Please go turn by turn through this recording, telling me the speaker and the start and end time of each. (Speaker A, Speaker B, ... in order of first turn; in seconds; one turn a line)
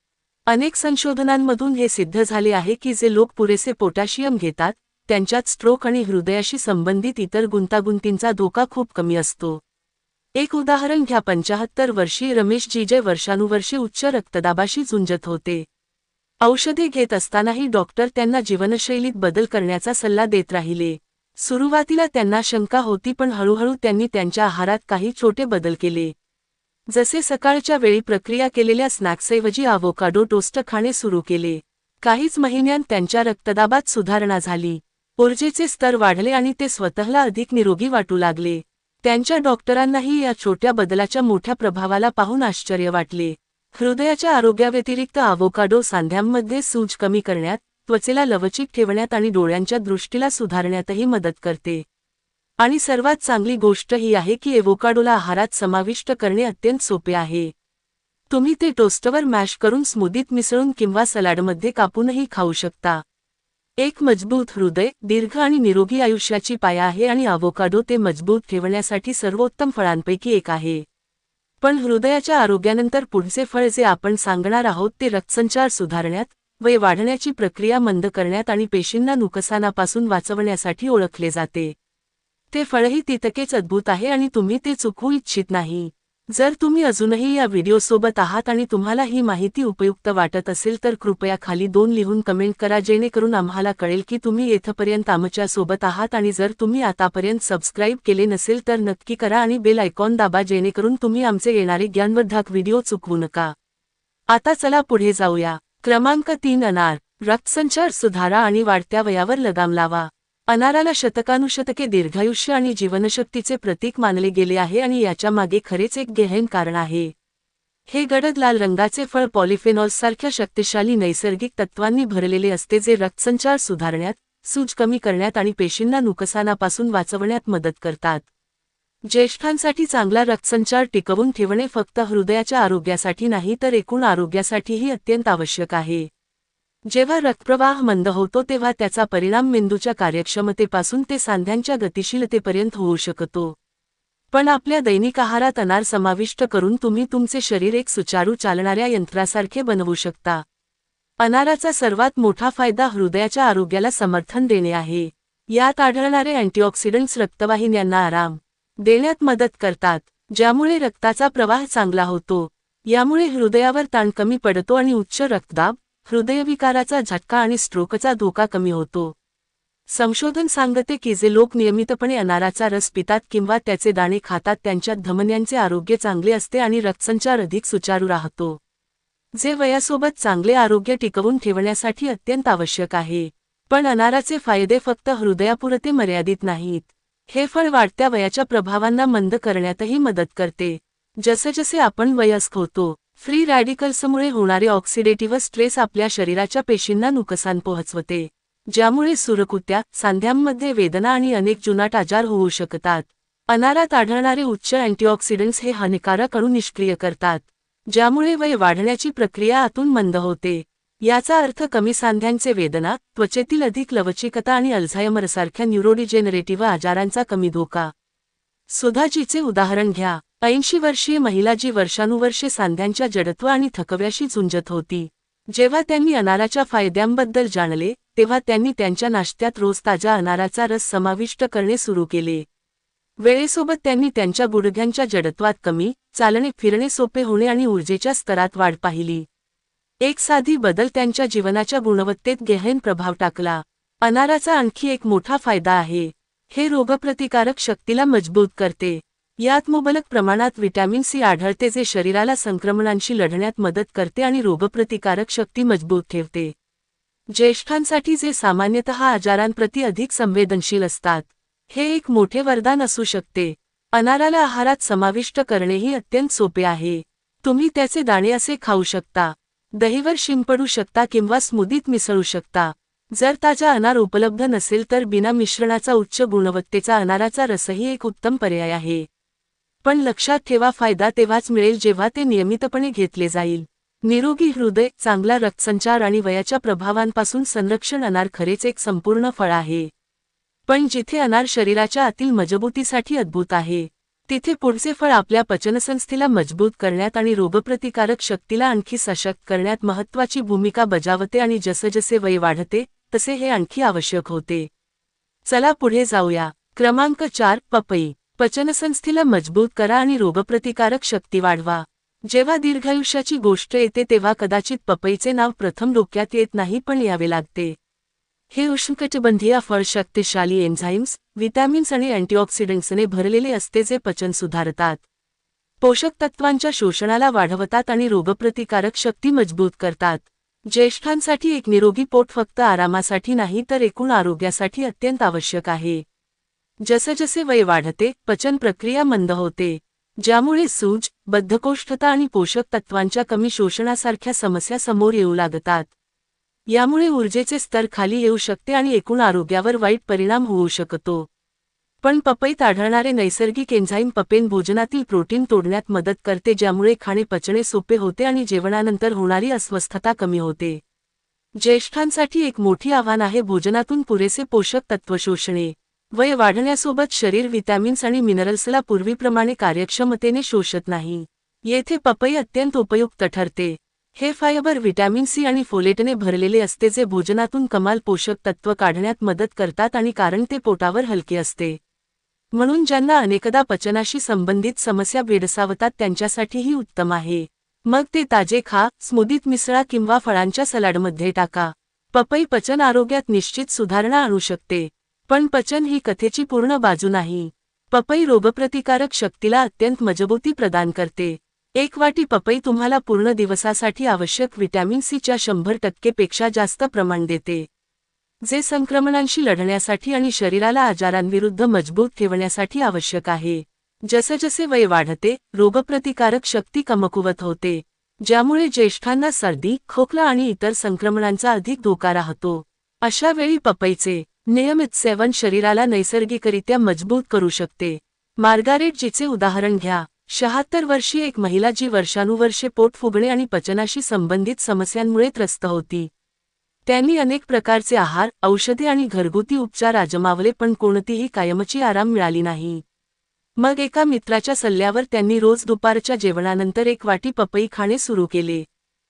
Speaker A: 0.5-9.6
Speaker A: 10.4-15.7
Speaker A: 16.4-26.1
Speaker A: 26.9-51.8
Speaker A: 52.6-57.5
Speaker A: 58.3-63.0
Speaker A: 63.8-70.8
Speaker A: 71.6-81.7
Speaker A: 82.5-103.5
Speaker A: 104.3-117.1
Speaker A: 117.9-128.3
Speaker A: 129.1-136.1
Speaker A: 136.9-143.6
Speaker A: 144.3-150.4
Speaker A: 151.2-169.2
Speaker A: 169.9-178.6
Speaker A: 179.4-217.9
Speaker A: 218.7-232.5
Speaker A: 233.2-239.3
Speaker A: 240.0-256.5
Speaker A: 257.3-279.1
Speaker A: 279.8-289.9
Speaker A: 290.7-304.7
Speaker A: 305.5-317.8
Speaker A: 318.5-325.0
Speaker A: 325.8-336.0
Speaker A: 336.8-345.9
Speaker A: 346.7-351.3
Speaker A: 352.0-360.8
Speaker A: 361.6-381.8
Speaker A: 382.5-407.7
Speaker A: 408.4-436.1
Speaker A: 436.9-442.8
Speaker A: 443.6-448.6